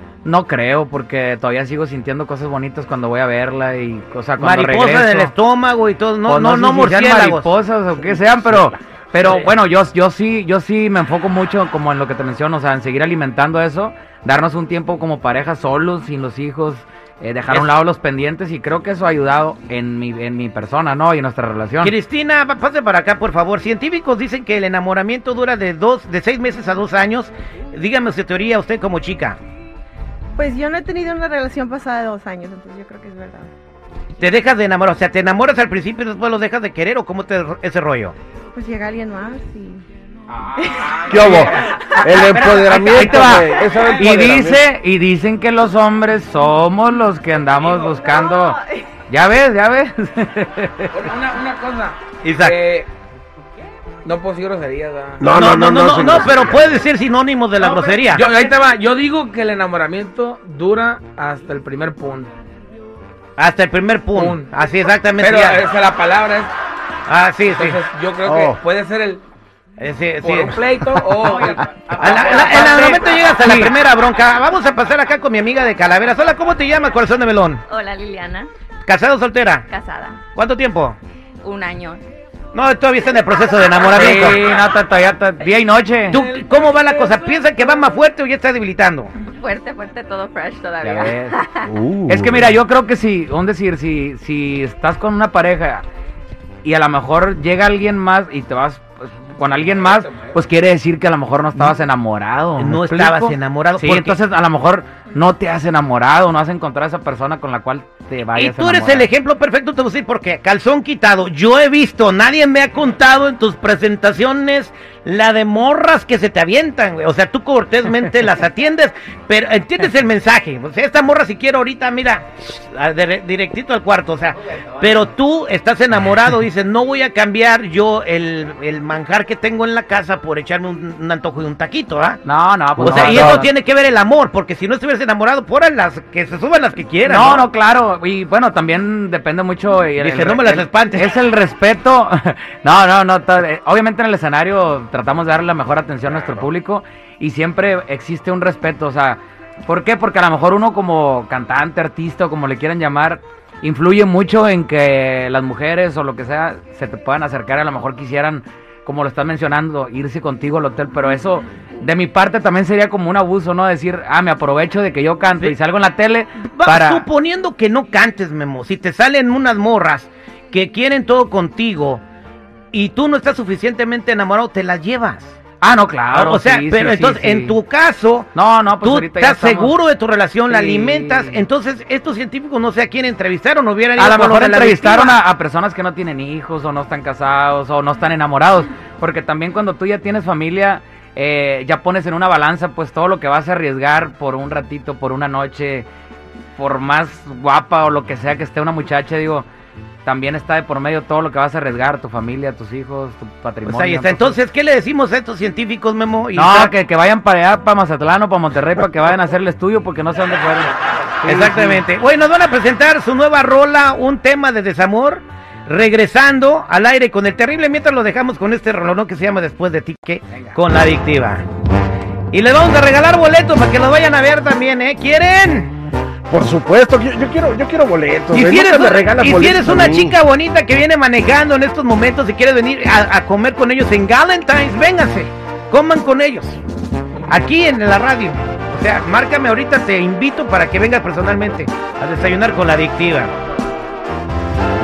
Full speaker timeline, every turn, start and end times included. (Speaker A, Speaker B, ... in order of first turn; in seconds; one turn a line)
Speaker A: 0.2-5.3
Speaker B: 4.4-7.5
Speaker A: 6.2-21.9
Speaker B: 21.8-29.4
Speaker C: 30.4-33.5
Speaker B: 34.2-38.1
Speaker C: 38.5-39.8
Speaker D: 40.5-41.7
Speaker A: 40.6-50.9
Speaker E: 41.1-44.6
Speaker D: 43.1-44.2
Speaker D: 47.7-47.9
Speaker F: 47.9-48.5
Speaker D: 50.9-52.9
Speaker B: 52.2-52.6
Speaker D: 54.0-55.4
Speaker E: 55.2-56.8
Speaker B: 55.2-58.3
Speaker D: 58.1-62.3
Speaker B: 63.4-65.6
Speaker D: 64.1-64.5
Speaker D: 65.2-66.5
Speaker B: 67.1-68.5
Speaker D: 67.5-69.2
Speaker B: 69.8-70.6
Speaker D: 70.2-73.0
Speaker B: 71.9-77.6
Speaker A: 72.3-73.7
Speaker F: 77.7-78.5
Speaker B: 78.8-79.6
Speaker F: 79.7-80.2
Speaker B: 80.3-81.0
Speaker F: 81.4-82.0
Speaker B: 82.5-84.5
Speaker A: 83.9-86.2
Speaker B: 86.1-89.1
Speaker F: 89.2-91.8
Speaker A: 90.8-91.4
Speaker E: 91.7-92.5
Speaker A: 92.1-95.8
Speaker A: 96.6-109.1
Speaker D: 99.4-100.4
Speaker B: 102.6-104.2
Speaker B: 108.3-132.2
Speaker A: 132.2-133.5
Speaker B: 132.8-137.5
Speaker E: 132.9-133.2
Speaker A: 137.0-167.1
Speaker B: 140.0-141.1
Speaker B: 166.4-172.0
Speaker B: 172.7-175.4
Speaker A: 175.6-177.6
Speaker B: 176.1-185.2
Speaker A: 178.3-179.8
Speaker A: 180.4-181.4
Speaker A: 183.9-195.9
Speaker A: 196.6-199.4
Speaker A: 200.0-204.3
Speaker B: 203.6-206.7
Speaker A: 206.3-211.8
Speaker B: 211.2-221.4
Speaker B: 222.3-225.7
Speaker E: 226.3-230.2
Speaker B: 228.3-236.6
Speaker B: 237.3-243.3